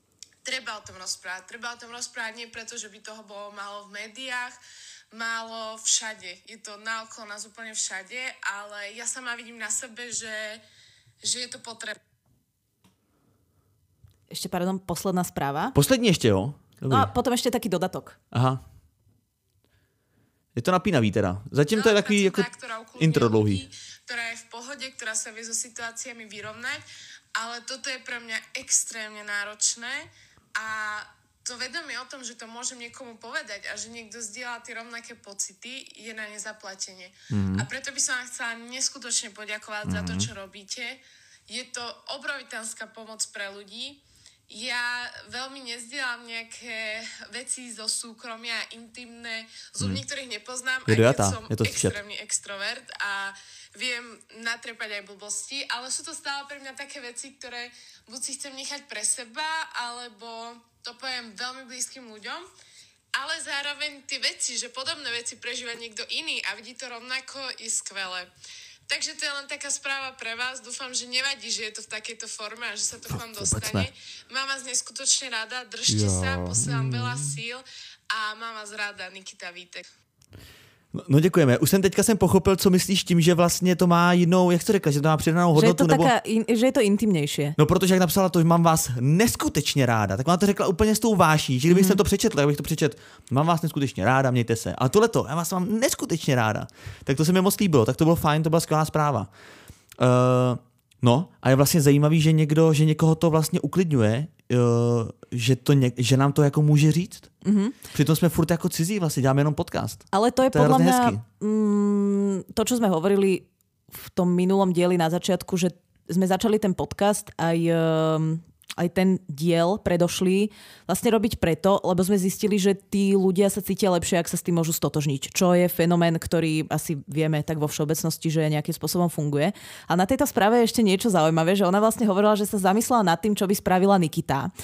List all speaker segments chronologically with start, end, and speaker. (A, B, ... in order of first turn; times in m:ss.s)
0:00.4-0:04.6 A
0:05.1-0:10.6 A
0:11.2-0:12.0 A
0:14.3-0:15.8 B
0:15.7-0:17.1 C
0:16.9-0:18.2 B
0:18.3-0:18.6 C
0:20.5-0:23.6 C
0:21.7-1:02.5 A
0:37.3-0:37.7 C
0:39.8-0:40.3 C
0:50.9-0:52.0 C
1:03.1-1:08.3 A
1:08.9-1:19.9 A
1:13.1-1:13.9 C
1:15.9-1:17.4 C
1:20.9-1:26.1 C
1:25.5-1:27.6 B
1:27.6-1:39.3 C
1:31.7-1:32.0 B
1:40.0-1:47.3 C
1:47.4-1:47.7 B
1:47.9-1:51.2 C
1:50.1-2:14.5 B